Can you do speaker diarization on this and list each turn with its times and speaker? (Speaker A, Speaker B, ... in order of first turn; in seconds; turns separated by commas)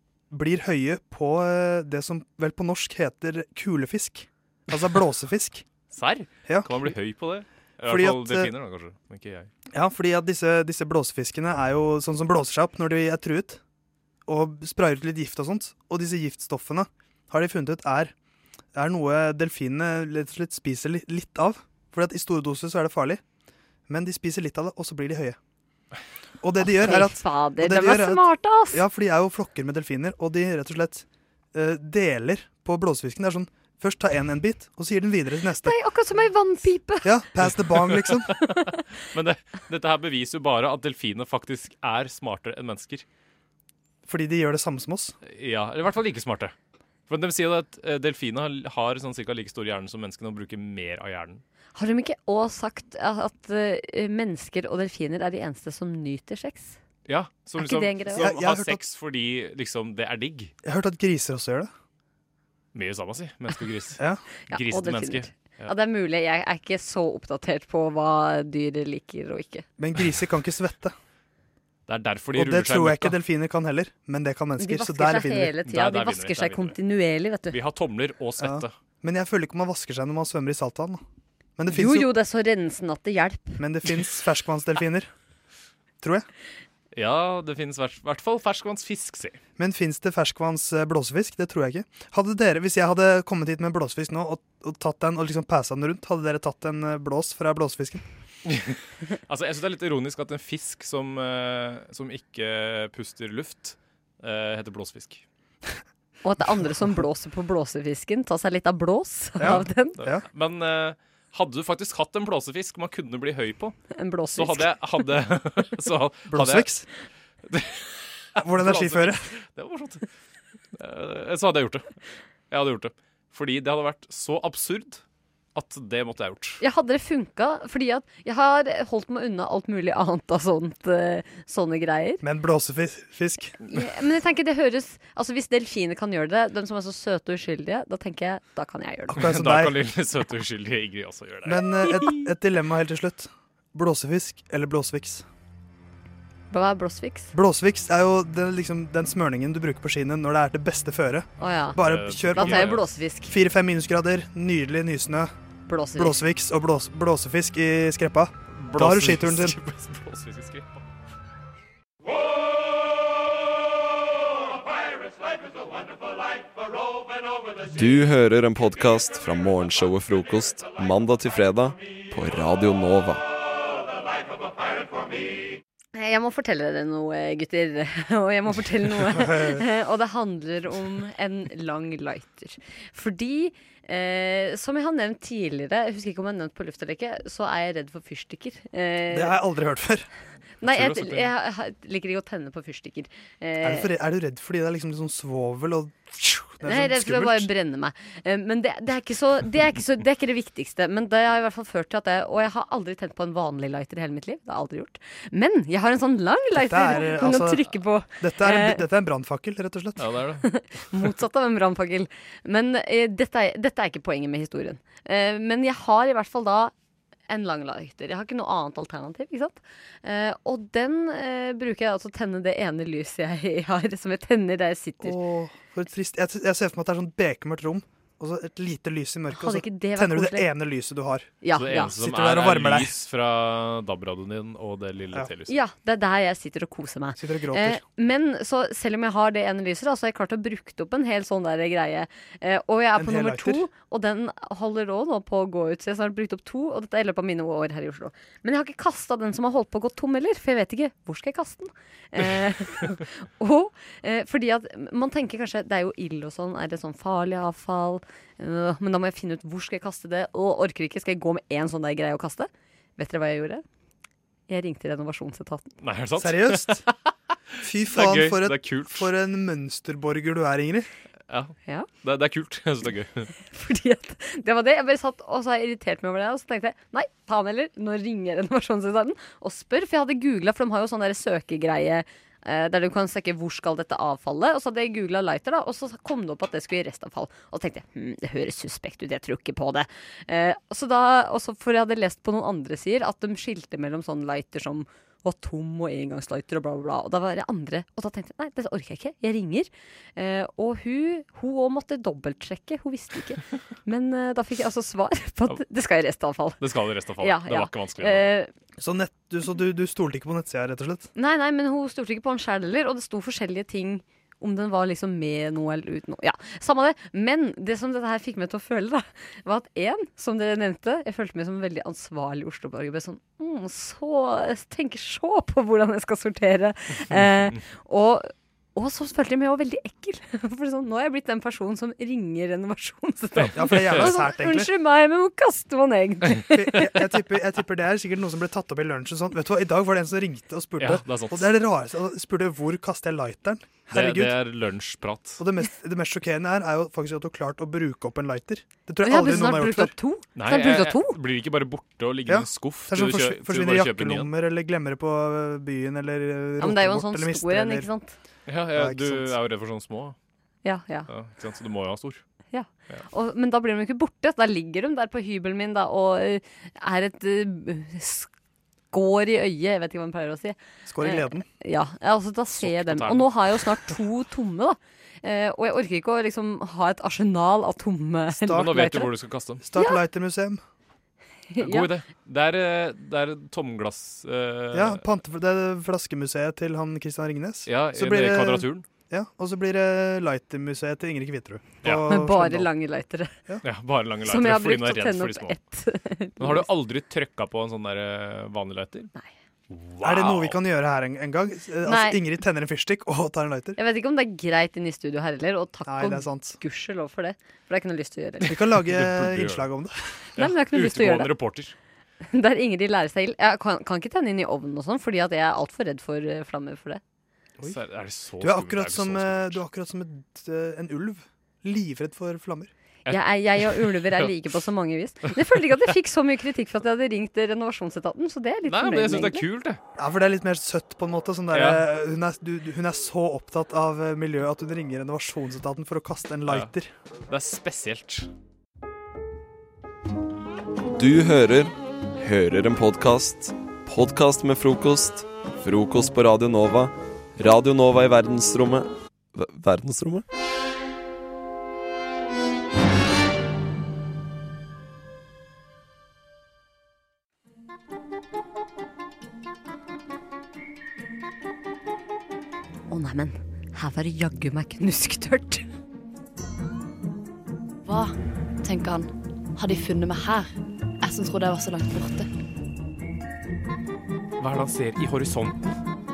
Speaker A: 0.3-5.6, Speaker B: 5.9-9.5, Speaker A: 6.5-6.9, Speaker A: 7.8-8.5, Speaker A: 9.7-13.6, Speaker A: 14.3-18.1, Speaker A: 18.7-23.2, Speaker A: 23.9-25.4, Speaker A: 26.4-35.8, Speaker C: 26.6-28.8, Speaker C: 35.6-37.2, Speaker A: 37.0-38.3, Speaker B: 37.8-43.0, Speaker A: 44.0-45.1, Speaker B: 45.2-46.5, Speaker B: 47.1-51.4, Speaker C: 51.8-56.8, Speaker B: 57.0-60.5, Speaker C: 57.6-58.3, Speaker A: 58.0-58.8, Speaker A: 60.6-61.7, Speaker B: 62.7-65.8, Speaker A: 64.0-64.2, Speaker C: 64.5-69.6, Speaker A: 69.8-70.9, Speaker B: 71.9-73.2, Speaker A: 72.3-75.6, Speaker C: 74.6-77.6, Speaker B: 75.5-76.8, Speaker B: 77.5-78.7, Speaker A: 78.4-81.0, Speaker A: 81.6-82.1, Speaker C: 81.7-83.6, Speaker A: 83.6-85.1, Speaker B: 86.9-89.4, Speaker A: 89.6-98.0, Speaker B: 98.5-98.8, Speaker B: 99.3-105.2, Speaker C: 106.2-110.0, Speaker A: 109.4-110.2, Speaker B: 109.4-113.8, Speaker C: 113.9-114.7, Speaker B: 114.3-116.8, Speaker A: 116.3-116.8, Speaker B: 117.5-120.0, Speaker A: 118.4-119.3, Speaker B: 120.7-121.9, Speaker B: 122.5-125.0, Speaker B: 125.5-126.6, Speaker C: 126.6-132.2, Speaker A: 132.2-133.6, Speaker C: 133.7-139.2, Speaker A: 139.1-139.8, Speaker B: 139.1-141.6, Speaker A: 141.4-145.2, Speaker C: 146.5-147.3, Speaker A: 147.3-155.3, Speaker C: 151.4-153.3, Speaker B: 151.8-152.9, Speaker C: 155.7-156.2, Speaker A: 155.9-159.6, Speaker B: 158.5-160.8, Speaker D: 167.7-173.2, Speaker C: 175.9-189.4, Speaker A: 179.0-179.6, Speaker A: 189.1-190.1, Speaker B: 190.6-191.3, Speaker C: 190.6-193.9, Speaker A: 193.6-197.5, Speaker C: 196.6-208.8, Speaker A: 206.6-210.2, Speaker B: 210.0-210.5, Speaker C: 210.4-216.7, Speaker C: 217.3-225.2, Speaker A: 225.0-232.9, Speaker C: 229.3-230.5, Speaker C: 231.4-231.9, Speaker B: 231.5-235.6, Speaker C: 235.5-263.6, Speaker A: 237.2-237.8, Speaker A: 242.9-243.7, Speaker C: 264.5-265.7, Speaker B: 265.8-266.9, Speaker A: 266.2-266.8, Speaker A: 267.6-270.9, Speaker B: 267.8-269.1, Speaker B: 271.3-273.3, Speaker C: 271.6-271.9, Speaker C: 273.4-306.6, Speaker B: 306.6-308.3, Speaker C: 307.1-308.5, Speaker A: 308.8-311.1, Speaker C: 311.1-336.6, Speaker B: 333.4-334.1, Speaker A: 333.5-334.7, Speaker A: 336.5-344.4, Speaker B: 340.8-341.5, Speaker B: 343.9-345.4, Speaker A: 345.4-349.9, Speaker C: 349.0-351.2, Speaker B: 350.3-354.3, Speaker A: 352.3-357.9, Speaker C: 356.6-358.1, Speaker B: 358.5-360.1, Speaker A: 358.7-359.4, Speaker C: 360.6-361.1, Speaker B: 361.1-362.2, Speaker C: 362.5-368.3, Speaker C: 368.9-379.1, Speaker A: 370.9-371.4, Speaker B: 372.6-373.9, Speaker A: 378.3-378.9, Speaker B: 378.5-379.6, Speaker A: 379.6-380.6, Speaker C: 379.7-380.0, Speaker C: 381.5-381.9, Speaker B: 381.6-385.0, Speaker A: 384.7-392.7, Speaker B: 387.6-388.8, Speaker C: 392.0-393.3, Speaker B: 393.6-395.6, Speaker C: 394.2-396.6, Speaker B: 396.4-399.1, Speaker B: 399.7-400.6, Speaker A: 400.0-403.8, Speaker C: 401.9-402.2, Speaker C: 403.8-408.5, Speaker A: 405.8-406.6, Speaker A: 408.4-410.0, Speaker B: 408.6-409.6, Speaker B: 410.4-411.7, Speaker C: 410.4-411.4, Speaker C: 412.3-417.0, Speaker B: 417.6-419.6, Speaker A: 418.4-422.7, Speaker B: 423.1-424.3, Speaker C: 423.1-429.4, Speaker B: 428.6-429.8, Speaker A: 430.0-436.9, Speaker B: 431.5-431.9, Speaker B: 436.4-436.7, Speaker B: 437.3-438.3, Speaker D: 440.9-450.2, Speaker C: 462.9-465.6, Speaker E: 467.8-472.3, Speaker B: 474.4-475.8